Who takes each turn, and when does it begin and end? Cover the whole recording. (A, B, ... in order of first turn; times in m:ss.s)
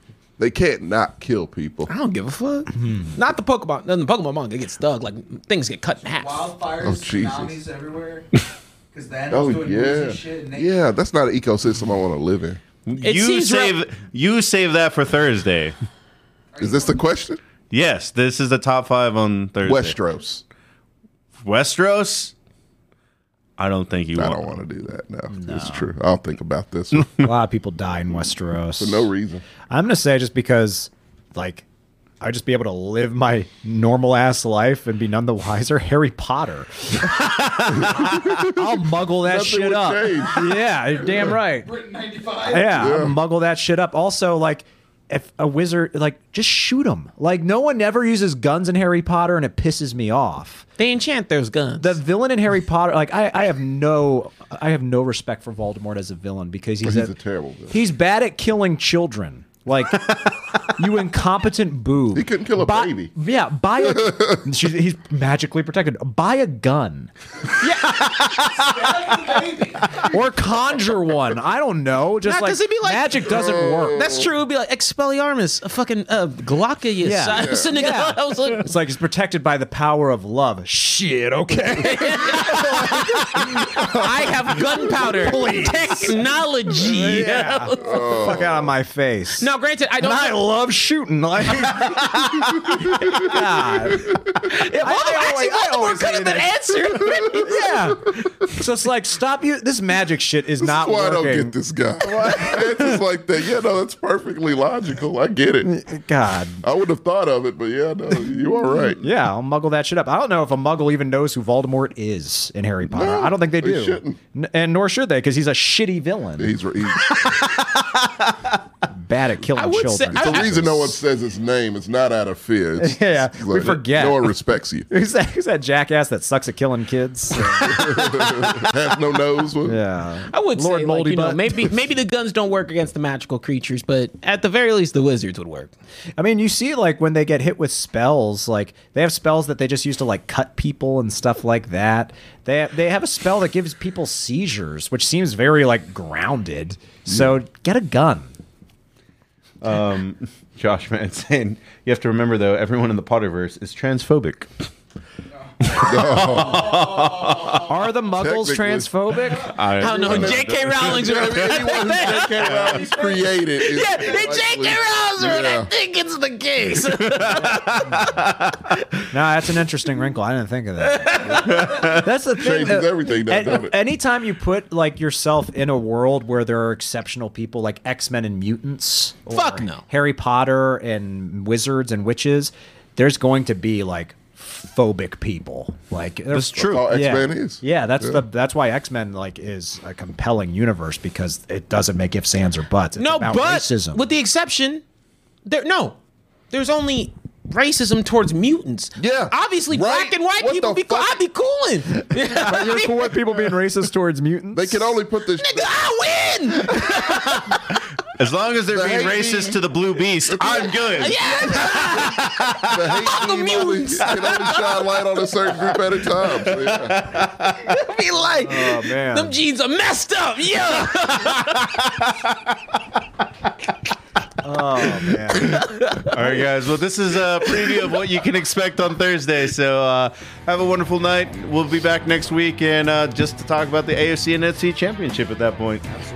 0:00.4-0:01.9 A
0:01.9-0:06.5 B
0:02.7-0:03.2 C
0:06.1-0:08.3 D
0:06.8-0:07.6 A
0:08.9-0:10.7 D
0:09.3-0:12.6 A
0:12.8-0:15.7 E
0:12.9-0:13.8 B
0:16.5-0:17.0 D
0:16.6-0:17.4 A
0:17.7-0:20.0 E
0:19.6-0:20.4 A
0:21.4-0:22.3 E
0:23.6-0:24.6 E
0:24.2-0:27.3 A
0:25.3-0:25.9 C
0:27.1-0:29.1 C
0:28.8-0:29.4 A
0:29.7-0:31.6 C
0:32.2-0:41.7 C
0:37.6-0:40.6 A
0:41.0-0:42.8 D
0:42.4-0:50.6 C
0:42.7-0:43.2 A
0:50.8-0:52.0 B
0:51.8-0:57.1 C
0:56.8-0:57.8 A
0:57.7-1:07.1 C
1:02.1-1:03.1 A
1:03.9-1:04.4 A
1:07.6-1:08.0 B
1:08.2-1:08.4 E
1:08.5-1:10.2 D
1:10.0-1:14.2 C
1:12.2-1:18.7 B
1:13.3-1:14.3 A
1:17.0-1:29.5 C
1:17.3-1:17.7 A
1:21.8-1:28.4 B
1:22.5-1:22.9 A
1:27.8-1:28.7 A
1:29.4-1:30.4 B
1:30.0-1:41.5 C
1:33.0-1:33.4 A
1:34.4-1:37.8 B
1:40.6-1:45.7 A
1:42.0-1:42.6 B
1:42.1-1:42.9 C
1:45.6-1:46.6 C
1:46.6-1:49.0 A
1:49.0-1:56.5 C
1:52.9-1:54.2 A
1:56.4-1:57.5 A
1:57.1-1:58.5 E
1:58.9-2:01.0 C
1:59.5-2:00.6 B
2:00.1-2:04.9 A
2:02.8-2:04.3 C
2:04.9-2:08.7 C
2:07.4-2:09.8 A
2:09.6-2:11.7 C
2:10.3-2:15.7 B
2:16.2-2:28.3 C
2:29.6-2:34.7 E
2:35.3-2:37.7 D
2:35.6-2:37.7 E
2:35.8-2:36.9 A
2:37.6-2:39.6 C
2:38.2-2:38.9 A
2:39.3-2:39.6 D
2:39.4-2:41.8 E
2:39.8-2:42.5 B
2:39.8-2:45.7 A
2:42.4-2:42.8 E
2:42.4-2:43.4 D
2:43.6-2:47.9 B
2:47.1-2:48.6 E
2:49.1-3:14.0 C
2:50.8-2:51.7 B
2:51.4-2:52.1 E
2:52.3-2:53.8 A
2:59.3-2:59.8 B
3:06.3-3:06.9 E
3:06.5-3:08.2 A
3:13.0-3:14.8 B
3:15.4-3:16.0 B
3:16.5-3:23.2 B
3:19.0-3:21.2 A
3:22.1-3:25.0 C
3:24.5-3:25.8 A
3:25.4-3:27.5 B
3:28.1-3:32.9 E
3:28.7-3:29.6 A
3:30.4-3:30.7 A
3:30.5-3:35.8 B
3:31.5-3:37.1 A
3:36.2-3:37.6 E
3:37.5-3:41.8 B
3:38.4-3:39.4 C
3:41.2-3:42.4 E
3:44.4-3:45.7 C
3:45.4-3:46.4 B
3:45.9-3:55.8 E